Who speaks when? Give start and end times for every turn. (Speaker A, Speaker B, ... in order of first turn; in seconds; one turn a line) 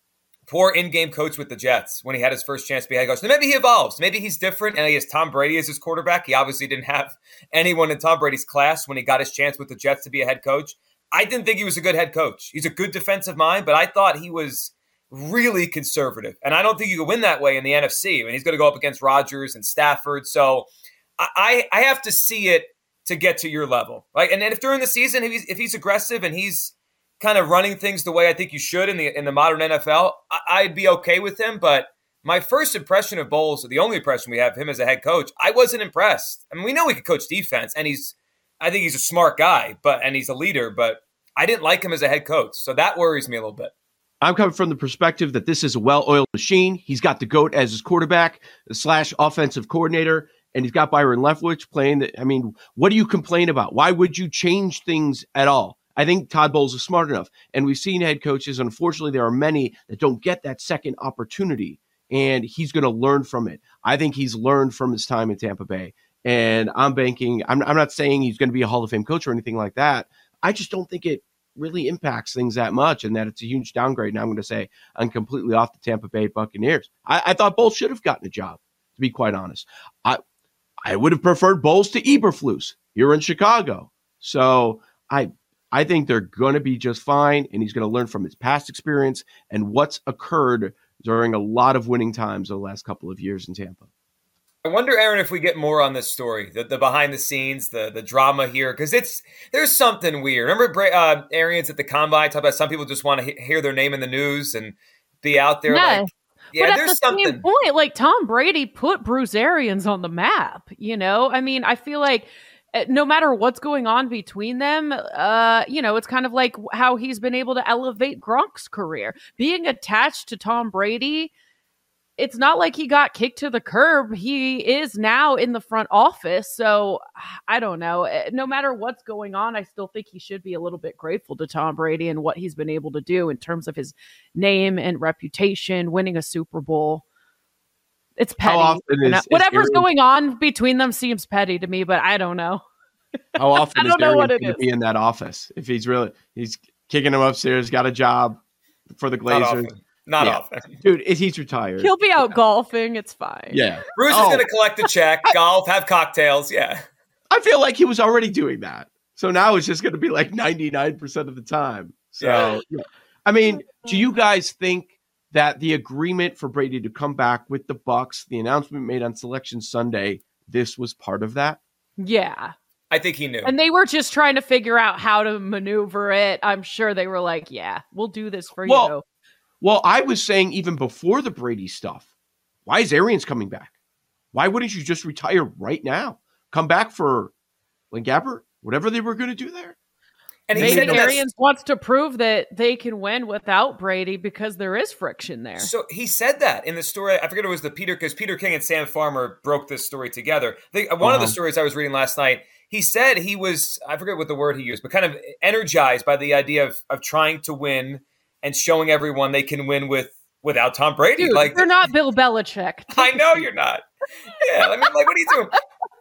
Speaker A: 0.5-20.7
Speaker A: 21.2-43.7
Speaker B: 44.2-80.2
Speaker B: 80.8-93.9
Speaker A: 94.6-107.4
Speaker C: 105.7-121.3
Speaker C: 122.2-137.0
Speaker C: 138.2-142.6
Speaker B: 138.4-139.9
Speaker B: 143.4-148.4
Speaker C: 143.6-144.6
Speaker B: 148.9-152.3
Speaker A: 149.3-150.8
Speaker C: 151.8-153.7
Speaker B: 153.5-154.4
Speaker A: 154.0-156.8
Speaker B: 157.3-171.6
Speaker A: 162.2-162.5
Speaker C: 172.0-172.5
Speaker A: 172.9-173.5
Speaker C: 173.4-179.0
Speaker B: 178.6-178.9
Speaker B: 179.6-182.1
Speaker B: 182.7-183.7
Speaker B: 184.3-187.3
Speaker B: 187.9-189.7
Speaker A: 190.5-191.2
Speaker B: 190.5-191.2
Speaker C: 190.6-195.7
Speaker A: 195.6-211.9
Speaker B: 201.0-201.4
Speaker C: 211.2-213.4
Speaker A: 212.9-213.8
Speaker A: 214.4-215.5